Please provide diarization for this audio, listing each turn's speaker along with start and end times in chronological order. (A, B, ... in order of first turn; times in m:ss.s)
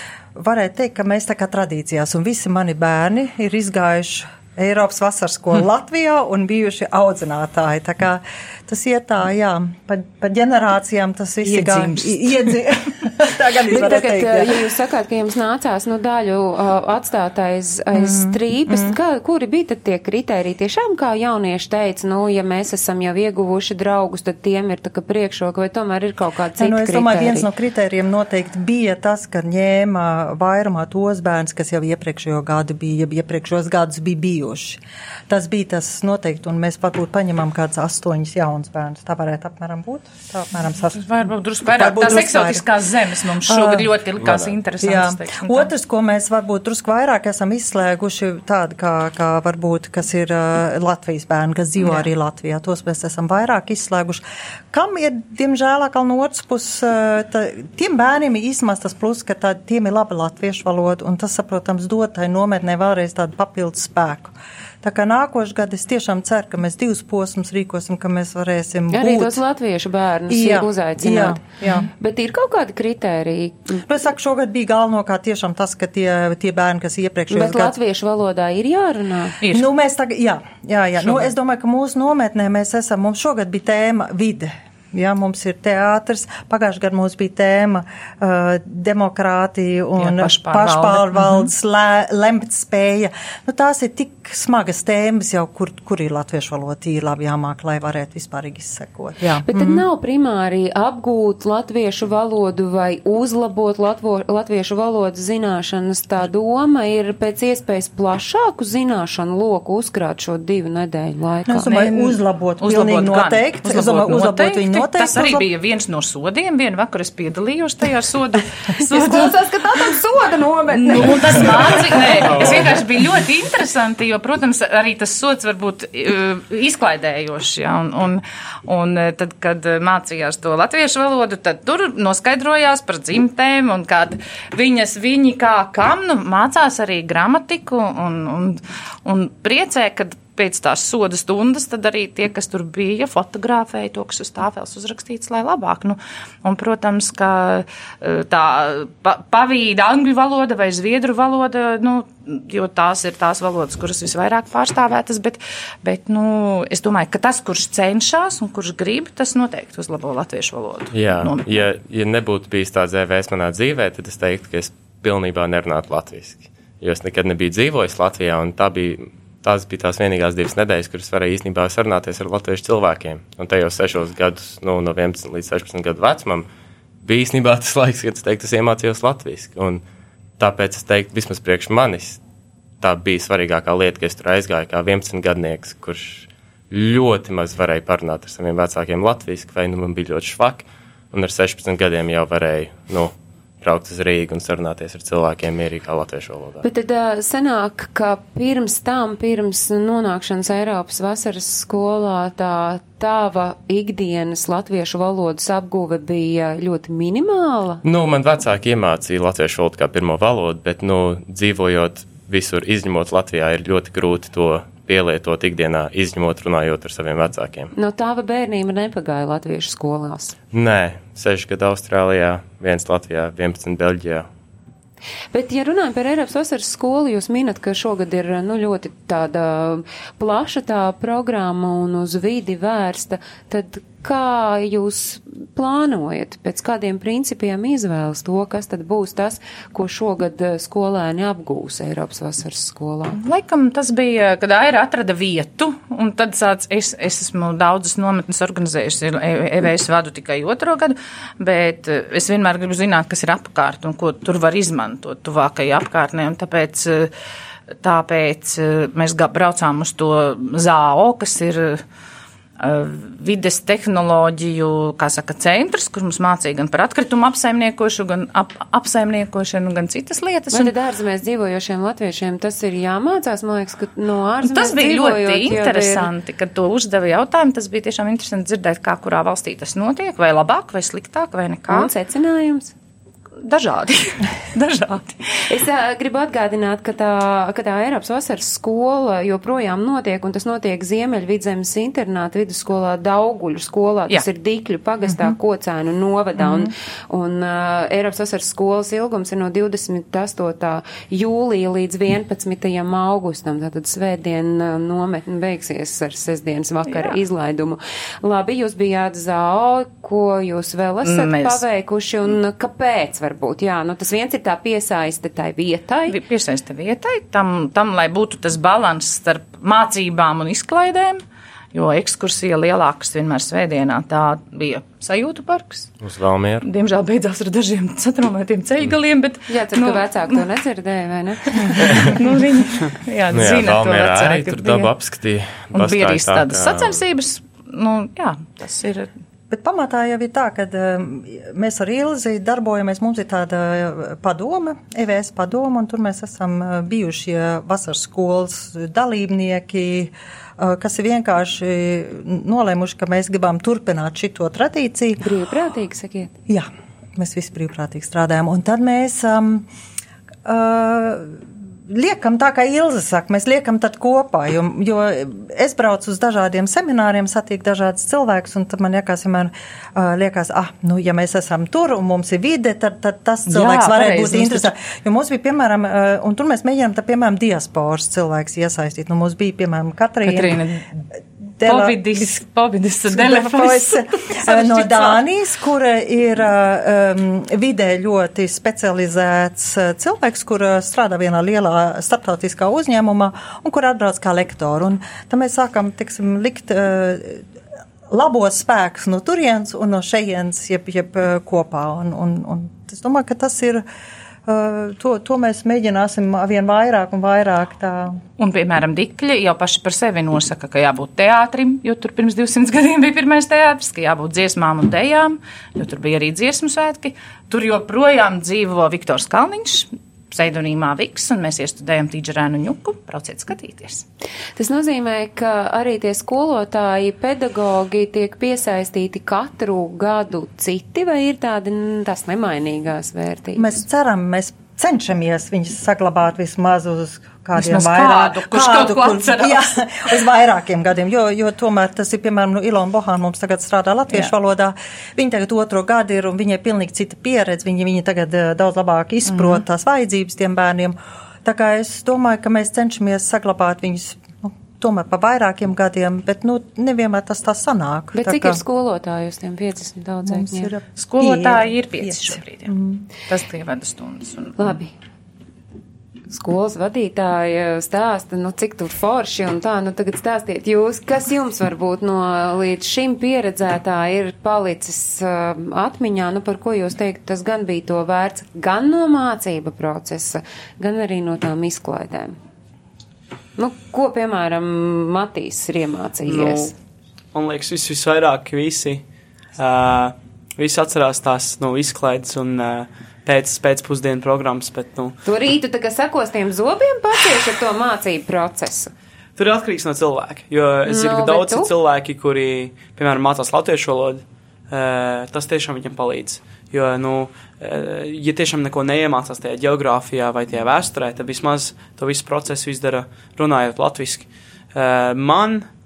0:00.4-0:14.6 A
0:11.4-0:12.6 B
0:13.7-0:27.5 C
0:17.9-0:19.0 A
0:26.6-0:41.1 A
0:41.0-0:45.7 B
0:41.6-0:42.7 A
0:43.5-0:43.9 A
0:44.2-0:44.6 D
0:44.8-1:09.4 A
1:08.9-1:13.8 C
1:10.3-1:11.9 A
1:13.9-1:17.8 A
1:17.3-1:19.4 C
1:19.4-1:19.7 B
1:19.5-1:39.9 A
1:30.0-1:31.5 B
1:39.5-1:51.8 C
1:51.5-1:55.5 A
1:51.7-1:59.9 B
1:58.8-2:02.0 C
1:59.6-2:02.7 A
2:00.7-2:41.6 B
2:40.9-2:56.5 D
2:57.0-2:59.8 D
3:00.4-3:02.2 D
3:02.8-3:16.6 D
3:16.6-3:27.8 C
3:27.8-3:37.7 D
3:37.8-3:40.4 C
3:40.5-3:44.3 D
3:45.3-4:03.2 C
4:03.1-4:17.1 B
4:17.8-4:21.8 B
4:22.6-4:30.7 B
4:30.5-4:36.1 C
4:34.4-4:41.9 B
4:41.7-4:42.7 C
4:43.4-4:45.4 B
4:45.5-5:16.2 C
4:55.0-4:55.4 A
4:56.4-4:56.7 A
5:06.9-5:07.2 B
5:11.0-5:11.6 B
5:16.1-5:25.9 B
5:26.0-5:26.7 D
5:26.6-5:30.5 B
5:29.5-5:32.2 C
5:31.6-5:34.9 B
5:33.3-5:37.0 D
5:35.7-5:39.1 B
5:39.5-5:55.2 A
5:55.2-5:56.3 C
5:56.5-5:59.7 A
6:00.4-6:20.6 A
6:13.5-6:14.7 B
6:20.2-6:20.8 B
6:21.6-6:22.4 A
6:21.6-6:25.2 B
6:23.1-6:37.4 A
6:38.1-6:43.8 A
6:44.5-6:48.2 A
6:48.4-7:04.0 B
7:04.6-7:13.7 C
7:13.6-7:38.6 A
7:17.6-7:19.7 B
7:29.3-7:29.6 B
7:38.1-7:40.7 C
7:40.3-7:43.1 A
7:41.0-7:42.7 B
7:43.3-7:44.6 B
7:44.6-7:44.9 C
7:46.3-8:02.4 C
8:03.6-8:06.7 C
8:06.2-8:06.7 E
8:07.3-8:09.0 E
8:09.6-8:15.2 E
8:15.2-8:18.9 C
8:19.4-8:35.7 E
8:20.9-8:21.7 C